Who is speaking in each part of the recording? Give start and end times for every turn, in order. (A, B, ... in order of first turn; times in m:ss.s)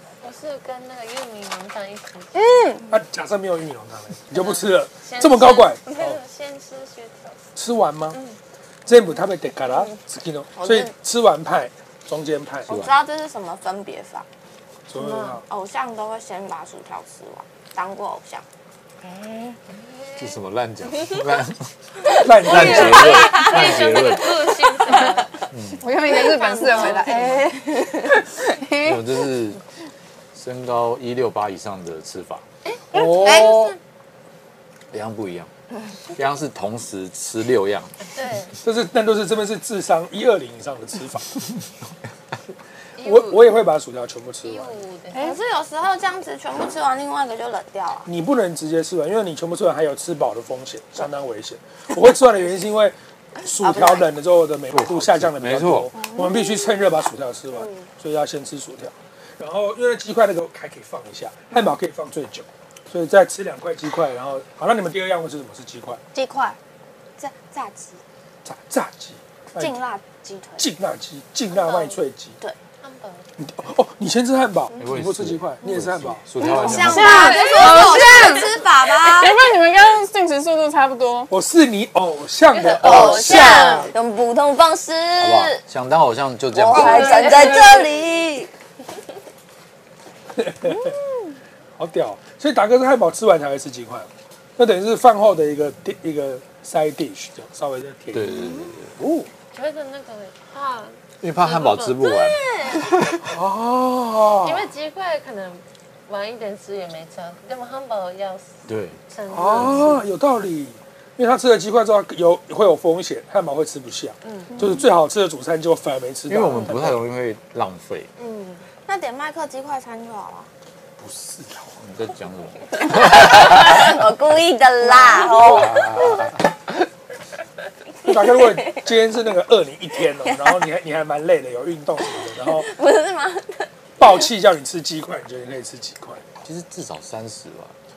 0:00.2-0:02.6 A
0:02.4-0:02.9 B
0:02.9-0:06.2 C
0:04.3-0:07.4 A
0:07.6-0:08.2 C
0:08.1-0:08.4 A
0:08.9-0:12.8 C
0:10.6-0:10.9 D
0:12.7-0:13.0 E
0:12.7-0:14.3 D
0:14.9-0:15.4 C
0:15.0-0:15.4 A
0:15.4-0:18.4 D
0:19.1-0:19.6 D
0:19.7-0:20.4 A
0:20.2-0:21.8 E
0:22.2-0:23.2 C
0:22.4-0:25.3 A
0:22.4-0:24.4 E
0:22.8-0:25.2 D
0:25.5-0:25.9 E
0:25.8-0:29.1 B
0:26.1-0:28.2 D
0:26.1-0:27.5 A
0:28.8-0:29.6 E
0:30.3-0:32.4 E
0:32.6-0:33.8 A
0:32.9-0:33.7 C
0:32.9-0:33.2 B
0:33.2-0:33.6 D
0:34.9-0:35.5 E
0:36.2-0:37.9 E
0:38.1-0:38.6 A
0:38.6-0:41.3 C
0:43.0-0:43.6 A
0:43.0-0:44.8 C
0:44.4-0:45.2 A
0:45.1-0:45.4 B
0:45.2-0:48.1 D
0:48.0-1:06.0 C
0:53.6-0:54.1 D
0:54.7-0:55.9 E
0:56.0-0:56.6 B
0:57.6-0:57.9 D
1:06.2-1:06.6 B
1:07.2-1:08.0 D
1:08.4-1:09.8 C
1:09.6-1:10.7 D
1:10.6-1:12.4 C
1:12.8-1:13.3 A
1:13.4-1:16.3 C
1:14.8-1:17.3 E
1:16.4-1:21.3 B
1:16.4-1:19.4 D
1:17.1-1:18.6 A
1:21.3-1:23.9 C
1:22.6-1:23.1 A
1:22.7-1:25.6 D
1:23.1-1:23.9 B
1:25.2-1:27.2 E
1:26.5-1:28.5 D
1:26.7-1:27.9 B
1:26.9-1:27.9 A
1:30.4-1:31.0 C
1:31.8-1:38.4 C
1:38.1-1:39.3 E
1:39.5-1:42.9 A
1:41.2-1:43.2 E
1:43.3-1:44.7 C
1:44.4-1:50.0 A
1:48.7-1:49.0 E
1:49.3-1:57.0 C
1:49.5-1:50.0 E
1:54.2-1:54.5 A
1:56.3-1:58.1 E
1:58.8-2:00.5 D
2:01.0-2:04.0 E
2:02.8-2:06.3 D
2:05.4-2:06.4 E
2:08.0-2:12.7 C
2:08.5-2:08.8 D
2:10.2-2:10.6 D
2:12.5-2:13.7 D
2:14.0-2:16.2 C
2:16.4-2:17.8 E